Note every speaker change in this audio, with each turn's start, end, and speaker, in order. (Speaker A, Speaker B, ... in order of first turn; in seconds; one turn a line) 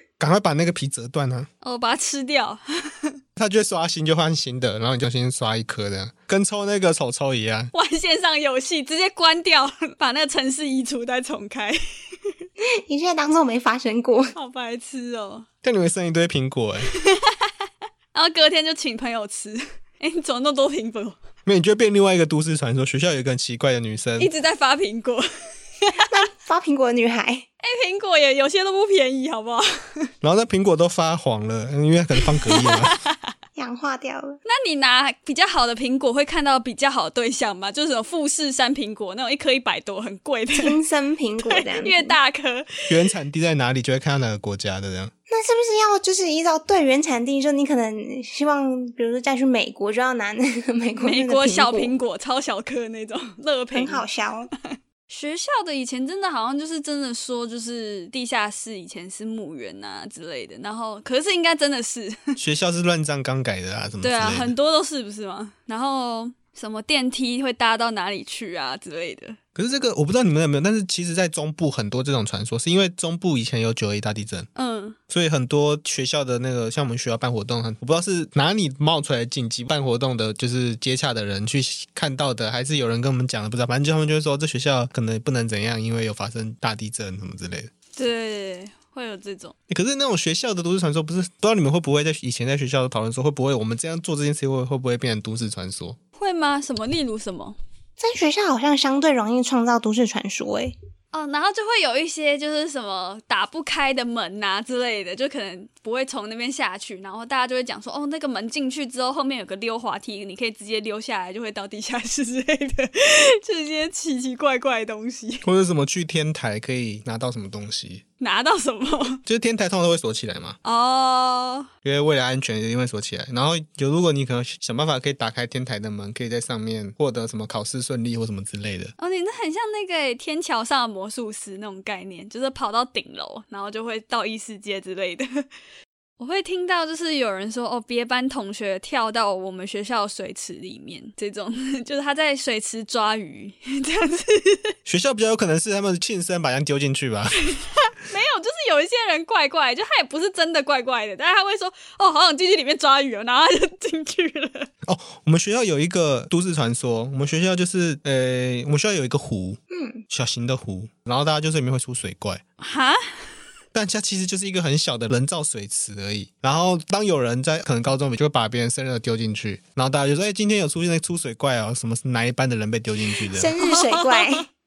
Speaker A: 0.2-1.5
Speaker B: 1.6-3.1
Speaker A: 3.4-7.7
Speaker B: 7.7-11.8
Speaker C: 12.8-14.3
Speaker B: 14.3-15.5
Speaker A: 15.6-16.9
Speaker B: 16.9-17.5
Speaker B: 18.1-21.2
Speaker A: 21.4-24.3
Speaker B: 24.2-25.3
Speaker B: 25.8-26.1
Speaker C: 26.1-27.4
Speaker B: 27.6-30.1
Speaker A: 30.2-33.0
Speaker B: 32.4-33.3
Speaker C: 33.5-34.4
Speaker B: 34.5-40.8
Speaker C: 40.5-42.1
Speaker B: 41.5-42.9
Speaker A: 42.9-45.1
Speaker C: 45.3-51.9
Speaker B: 51.0-54.0
Speaker C: 53.7-54.5
Speaker B: 54.6-62.4
Speaker A: 62.4-64.5
Speaker B: 64.0-69.4
Speaker A: 69.5-74.5
Speaker B: 74.5-75.0
Speaker A: 75.1-87.7
Speaker B: 87.9-89.5
Speaker A: 89.7-96.0
Speaker B: 96.2-97.6
Speaker C: 98.0-100.8
Speaker B: 101.1-115.5
Speaker A: 115.4-118.0
Speaker B: 118.2-119.2
Speaker A: 119.2-120.6
Speaker B: 120.6-121.7
Speaker A: 121.8-128.9
Speaker B: 129.0-135.4
Speaker B: 136.2-144.7
Speaker A: 144.8-147.4
Speaker B: 147.5-154.7
Speaker A: 154.8-162.4
Speaker C: 159.7-160.0
Speaker B: 162.6-163.0
Speaker A: 163.7-173.5
Speaker C: 173.3-174.5
Speaker B: 173.6-174.4